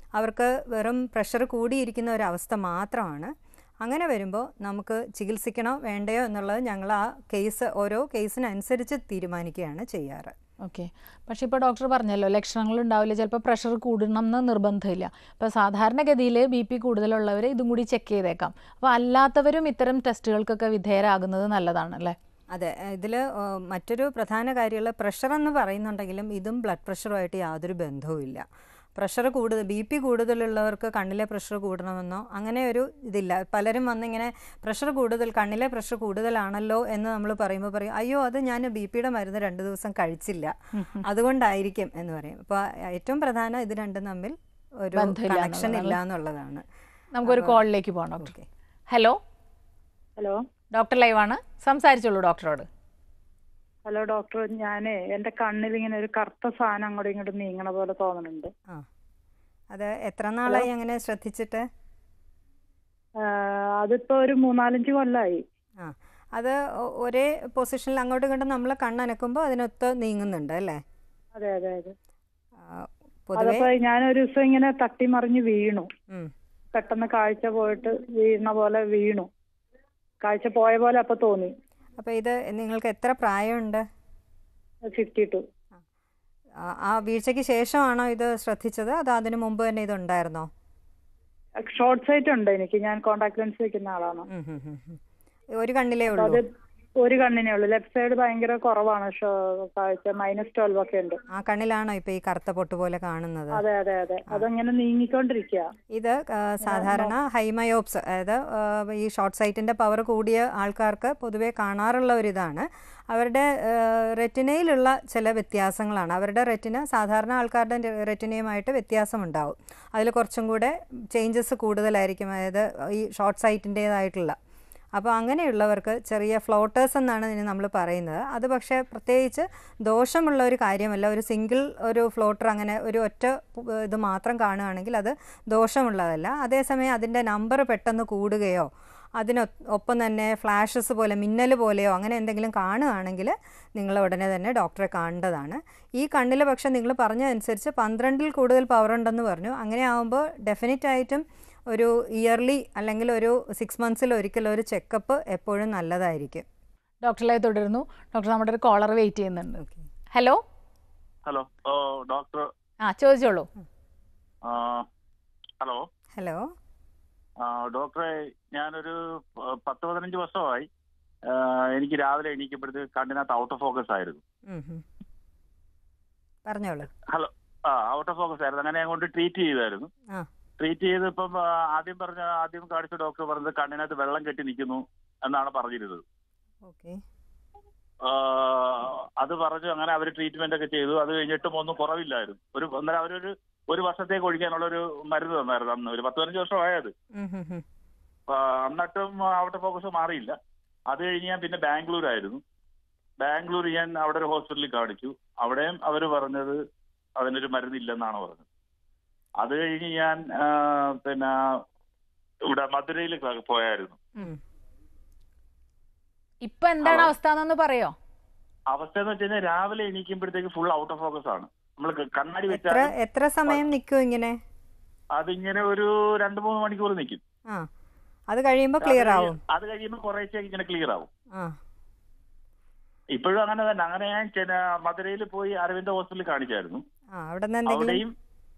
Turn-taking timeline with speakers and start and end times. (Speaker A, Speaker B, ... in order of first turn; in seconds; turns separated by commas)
Speaker A: 0.2-10.3, Speaker B: 10.6-22.1, Speaker A: 22.5-46.6, Speaker B: 40.8-41.0, Speaker B: 44.9-46.0, Speaker B: 47.1-48.3, Speaker A: 47.2-47.6, Speaker A: 48.2-48.5, Speaker B: 48.9-49.2, Speaker B: 50.7-52.7, Speaker C: 53.9-58.5, Speaker A: 59.7-61.7, Speaker C: 63.2-65.4, Speaker A: 65.8-70.8, Speaker C: 71.3-71.9, Speaker A: 72.6-73.7, Speaker C: 73.4-75.9, Speaker C: 76.7-79.3, Speaker C: 80.2-81.5, Speaker A: 82.0-83.9, Speaker C: 84.9-85.4, Speaker A: 86.6-90.5, Speaker C: 91.6-94.3, Speaker A: 94.3-95.0, Speaker A: 95.5-96.4, Speaker C: 96.2-96.5, Speaker C: 97.0-101.2, Speaker A: 101.3-103.6, Speaker C: 103.5-105.7, Speaker A: 105.9-124.4, Speaker C: 106.7-107.1, Speaker A: 125.0-156.4, Speaker B: 157.0-159.6, Speaker A: 159.6-159.8, Speaker B: 160.1-160.4, Speaker D: 161.2-162.5, Speaker B: 162.8-163.5, Speaker D: 164.4-164.9, Speaker D: 165.6-165.8, Speaker A: 166.1-166.5, Speaker D: 167.4-170.7, Speaker D: 171.2-174.2, Speaker A: 174.5-174.8, Speaker A: 176.4-176.9, Speaker D: 177.1-179.9, Speaker D: 180.6-186.0, Speaker A: 186.6-187.0, Speaker D: 188.0-196.9, Speaker A: 197.1-197.6, Speaker D: 198.3-200.3, Speaker D: 200.9-202.4, Speaker D: 203.2-206.6, Speaker D: 207.2-208.4, Speaker D: 209.4-211.3, Speaker D: 212.5-214.0, Speaker B: 216.4-217.9, Speaker D: 216.8-217.1, Speaker D: 218.7-222.9, Speaker A: 222.5-224.4, Speaker D: 225.2-227.2, Speaker A: 228.3-229.4, Speaker D: 228.8-231.1, Speaker A: 231.3-231.6, Speaker D: 233.1-236.8, Speaker A: 237.1-238.0, Speaker D: 237.7-238.1